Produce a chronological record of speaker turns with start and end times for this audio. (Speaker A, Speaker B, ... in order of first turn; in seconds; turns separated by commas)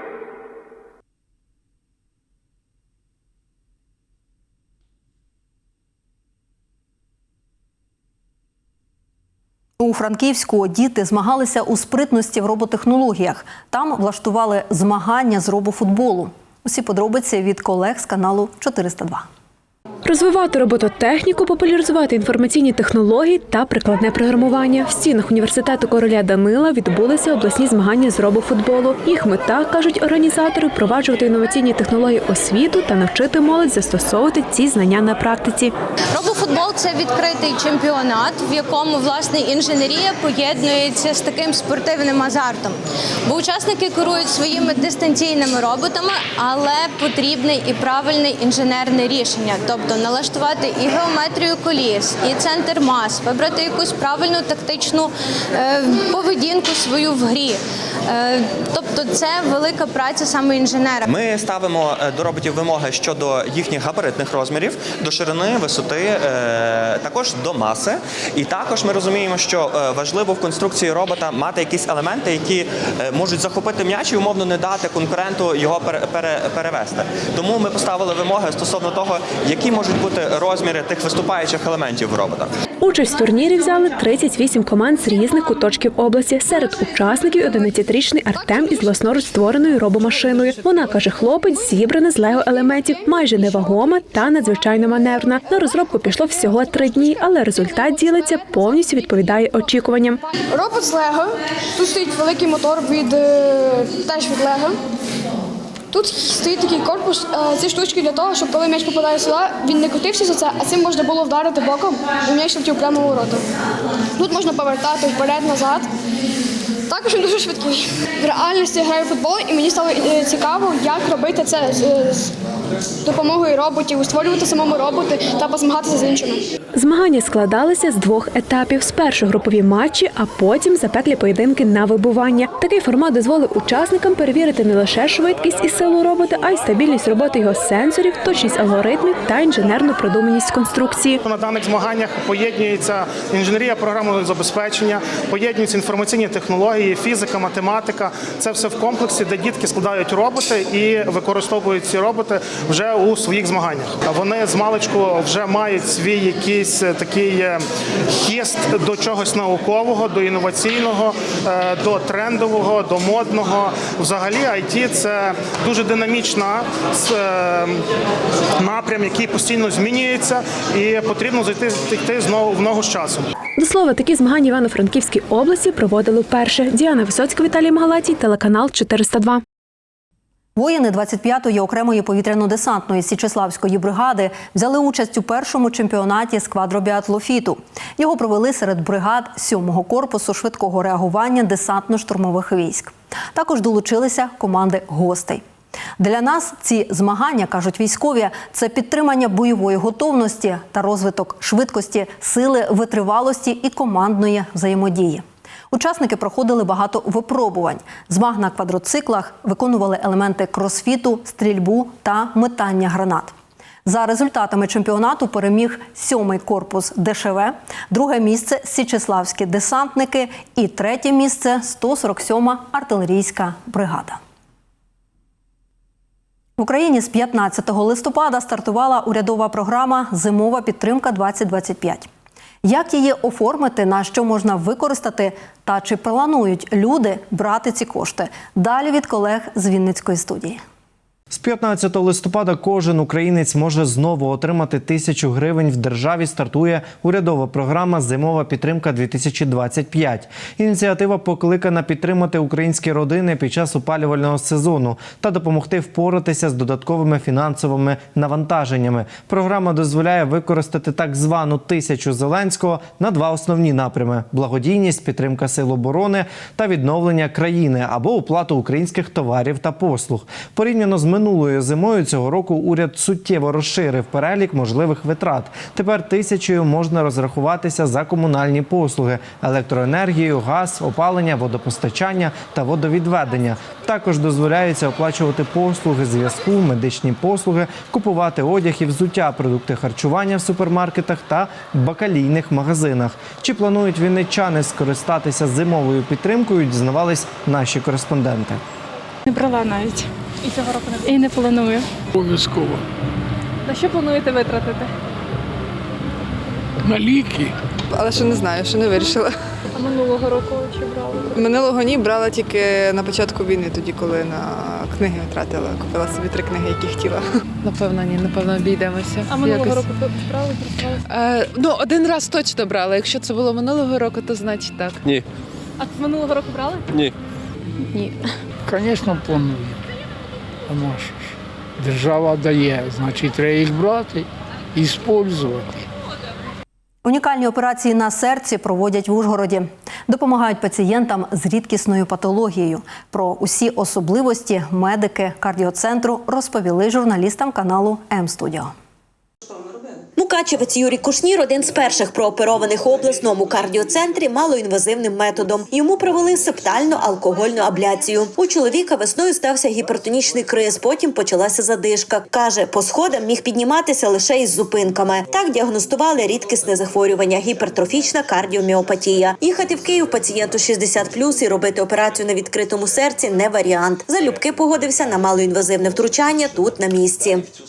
Speaker A: 9.8-19.3, Speaker B: 20.0-35.7, Speaker C: 36.1-61.0, Speaker D: 61.0-82.5, Speaker B: 82.8-100.2, Speaker E: 100.5-104.8, Speaker E: 105.9-113.4, Speaker E: 114.2-115.9, Speaker E: 116.9-122.3, Speaker E: 123.0-126.4, Speaker B: 126.7-141.2, Speaker F: 141.2-157.6, Speaker F: 158.2-167.8, Speaker F: 168.6-173.3, Speaker B: 173.6-179.4, Speaker A: 180.6-195.4, Speaker A: 196.0-224.2, Speaker A: 226.6-232.1, Speaker A: 232.6-240.6, Speaker G: 241.3-298.6, Speaker H: 299.2-301.9, Speaker I: 302.1-302.8, Speaker H: 303.6-304.9, Speaker I: 306.8-307.5, Speaker J: 307.9-309.3, Speaker H: 309.7-311.4, Speaker J: 311.4-317.2, Speaker K: 317.6-319.9, Speaker H: 319.2-321.0, Speaker K: 321.1-325.0, Speaker H: 325.8-326.9, Speaker I: 328.6-329.8, Speaker I: 330.7-335.8, Speaker A: 337.0-348.7, Speaker L: 350.2-377.4